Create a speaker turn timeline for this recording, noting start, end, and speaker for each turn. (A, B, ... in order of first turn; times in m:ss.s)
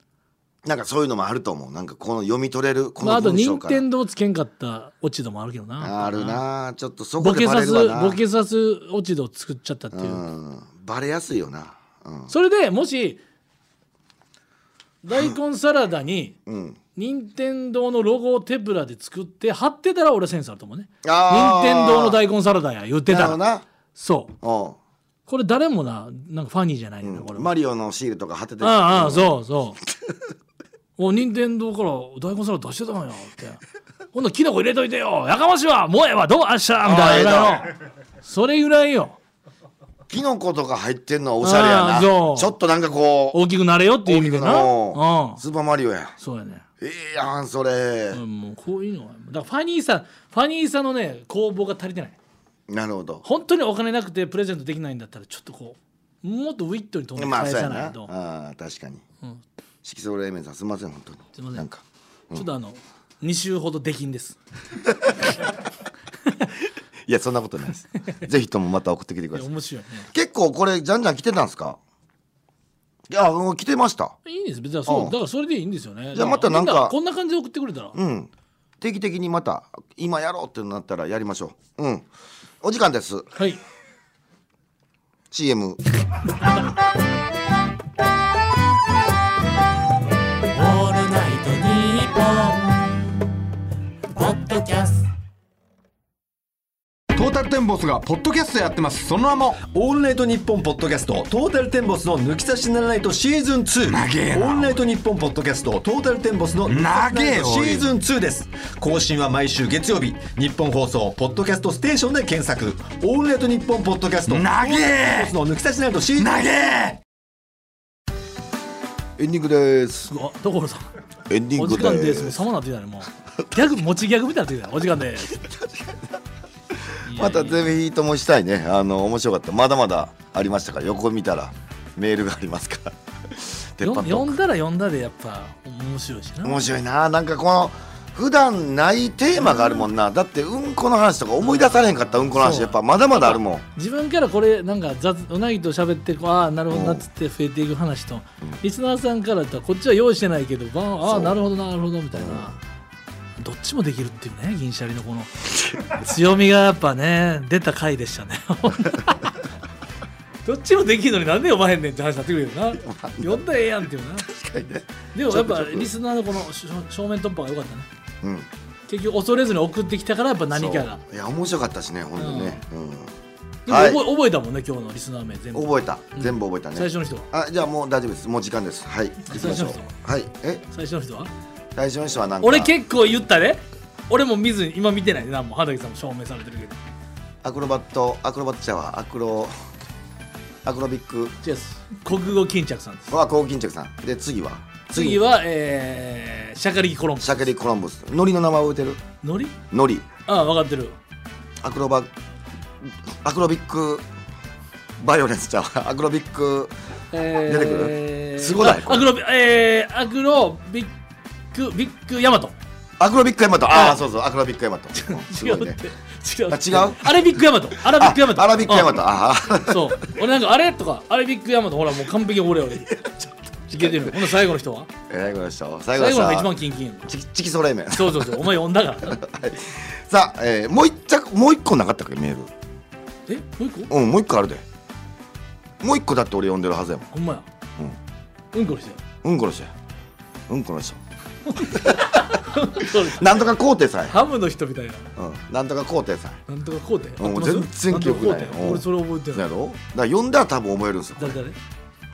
0:00.6-0:03.8 A
0:03.0-0:06.4 B
0:05.8-0:08.2 A
0:07.2-0:10.2 B
0:09.9-0:12.3 A
0:12.3-0:13.2 B
0:15.0-0:16.4 B
0:16.4-0:16.8 A
0:16.9-0:23.4 B
0:21.0-0:22.2 A
0:23.1-0:23.6 A
0:23.9-0:24.3 B
0:24.4-0:24.8 A
0:25.3-0:27.5 B
0:27.0-0:30.2 A
0:28.6-0:29.8 B
0:31.0-0:33.6 B
0:34.1-0:39.2 B
0:36.8-0:37.6 A
0:40.1-0:43.4 A
0:41.4-0:42.5 B
0:43.3-0:45.4 B
0:44.0-0:46.2 A
0:46.2-0:46.6 B
0:46.8-0:48.2 A
0:48.1-0:52.2 B
0:52.7-0:53.2 A
0:53.2-0:58.1 B
0:57.2-0:59.0 A
0:59.8-1:02.5 A
1:01.3-1:01.6 B
1:02.3-1:04.4 B
1:07.0-1:09.5 A
1:09.3-1:10.1 B
1:10.1-1:11.8 A
1:13.1-1:14.2 A
1:14.2-1:18.0 B
1:14.8-1:15.2 A
1:16.1-1:17.0 A
1:17.9-1:22.1 A
1:22.6-1:23.3 A
1:23.3-1:23.6 B
1:25.3-1:25.8 A
1:30.5-1:33.0 C
1:34.1-1:35.0 C
1:37.1-1:39.6 D
1:39.6-1:56.6 E
1:43.9-1:44.8 D
1:46.7-1:47.9 D
1:54.3-1:55.3 D
1:56.2-1:57.0 D
1:59.2-2:00.1 A
2:00.0-2:00.9 B
2:01.3-2:02.4 A
2:01.6-2:05.4 B
2:05.3-2:06.2 A
2:06.8-2:14.4 A
2:07.0-2:07.7 B
2:13.8-2:16.6 B
2:16.4-2:23.6 A
2:19.4-2:19.9 B
2:21.4-2:32.5 B
2:26.7-2:27.1 A
2:31.0-2:31.4 A
2:32.1-2:32.5 A
2:33.4-2:39.4 B
2:40.4-2:44.3 B
2:42.8-2:43.4 A
2:44.2-2:45.9 A
2:45.1-2:47.9 B
2:48.2-2:48.5 A
2:48.9-2:51.0 B
2:50.5-2:53.1 A
2:52.2-2:52.6 B
2:53.7-2:54.0 A
2:53.7-2:57.3 B
2:55.5-3:00.6 A
2:59.2-2:59.9 B
3:00.7-3:01.3 B
3:01.7-3:02.7 A
3:02.4-3:06.8 B
3:07.4-3:09.5 A
3:10.6-3:11.4 A
3:11.4-3:13.1 B
3:13.1-3:15.2 A
3:14.9-3:17.4 B
3:17.2-3:19.0 A
3:19.2-3:19.6 B
3:19.7-3:20.1 A
3:20.3-3:21.0 B
3:21.6-3:22.1 A
3:22.8-3:24.0 A
3:25.0-3:26.7 A
3:27.1-3:30.9 B
3:27.4-3:29.1 A
3:31.5-3:32.5 B
3:33.0-3:35.8 A
3:33.7-3:34.0 B
3:34.9-3:39.0 B
3:36.5-3:40.1 A
3:39.6-3:43.1 B
3:42.9-3:44.1 A
3:43.7-3:44.9 B
3:45.1-3:46.5 A
3:46.0-3:47.1 B
3:47.1-3:52.5 A
3:47.9-3:49.2 B
3:53.3-3:53.9 B
3:53.9-3:54.6 A
3:55.8-3:57.1 A
3:57.1-3:57.4 B
3:58.5-3:59.0 B
3:59.2-3:59.7 A
4:00.5-4:01.0 A
4:01.5-4:03.5 B
4:01.6-4:04.2 A
4:04.1-4:05.1 B
4:05.2-4:06.4 A
4:06.5-4:09.4 B
4:07.2-4:11.4 A
4:11.2-4:11.6 B